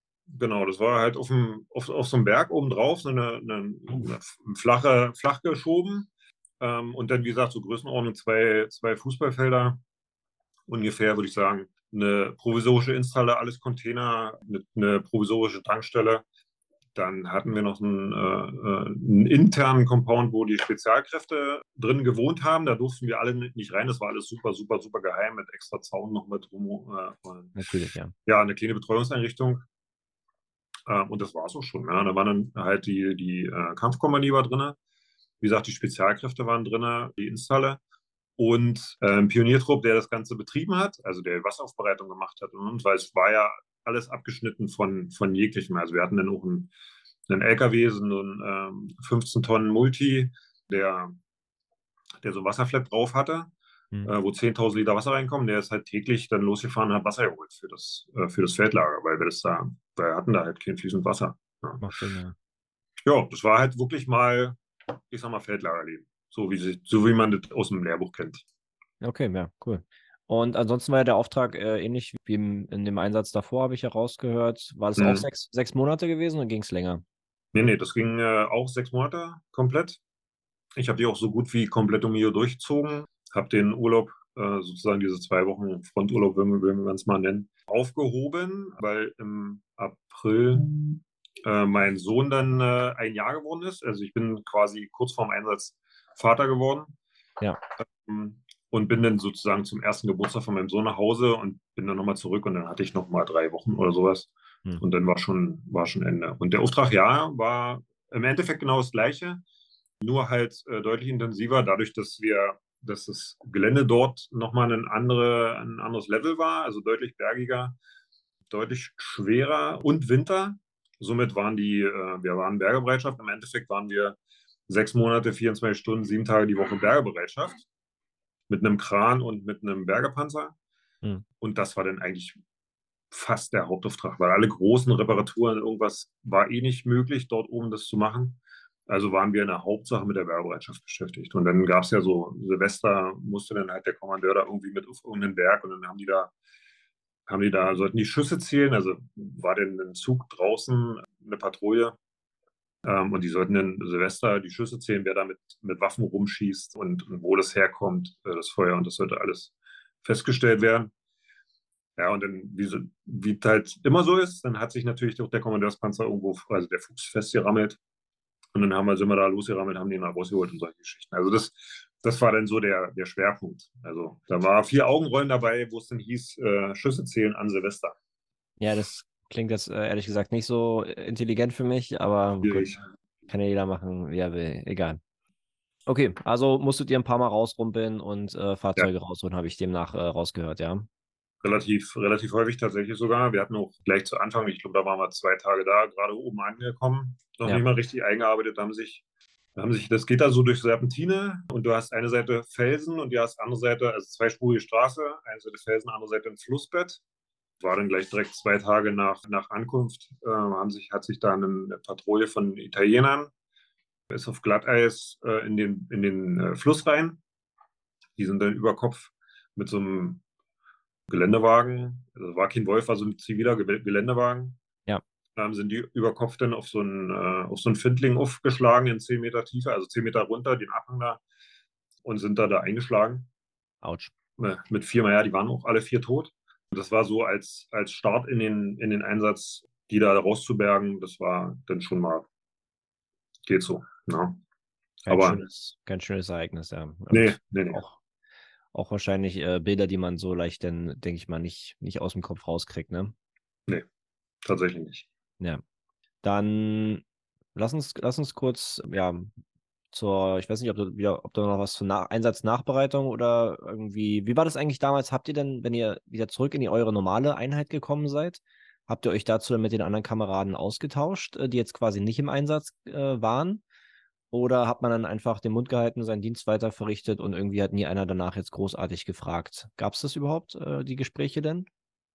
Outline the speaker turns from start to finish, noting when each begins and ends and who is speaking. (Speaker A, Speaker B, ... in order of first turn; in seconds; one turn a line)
Speaker A: 0.3-6.1
Speaker A: 6.6-9.8
Speaker A: 10.7-16.2
Speaker A: 16.9-27.6
Speaker B: 27.6-28.1
Speaker A: 28.2-29.6
Speaker A: 30.9-34.8
Speaker A: 35.4-37.8
Speaker A: 38.4-46.7
Speaker A: 47.3-51.1
Speaker A: 52.2-53.5
Speaker A: 54.0-61.8
Speaker B: 61.8-62.3
Speaker A: 63.0-68.4
Speaker B: 69.0-77.0
Speaker A: 75.0-75.2
Speaker A: 77.5-80.0
Speaker A: 80.8-96.9
Speaker A: 97.8-109.4
Speaker A: 110.0-117.8
Speaker A: 118.5-124.2
Speaker A: 124.7-127.7
Speaker A: 128.5-130.5
Speaker A: 131.4-132.4
Speaker A: 133.1-146.3
Speaker A: 147.3-152.0
Speaker A: 152.8-159.5
Speaker A: 160.0-160.9
Speaker A: 161.9-167.8
Speaker A: 168.5-177.9
Speaker B: 178.6-182.7
Speaker A: 182.4-182.8
Speaker B: 183.3-185.0
Speaker B: 185.9-190.9
Speaker A: 191.4-199.0
Speaker A: 199.6-207.0
Speaker A: 207.6-213.3
Speaker A: 214.1-217.2
Speaker A: 218.2-220.2
Speaker A: 221.1-224.6
Speaker A: 225.3-231.2
Speaker A: 232.0-233.3
Speaker B: 233.8-234.1
Speaker A: 234.4-242.3
Speaker A: 243.4-244.4
Speaker A: 245.1-245.4
Speaker B: 245.1-248.0
Speaker A: 247.1-247.8
Speaker B: 248.7-253.1
Speaker A: 254.4-255.1
Speaker B: 256.2-257.0
Speaker B: 257.5-259.3
Speaker B: 259.9-273.6
Speaker B: 274.3-281.7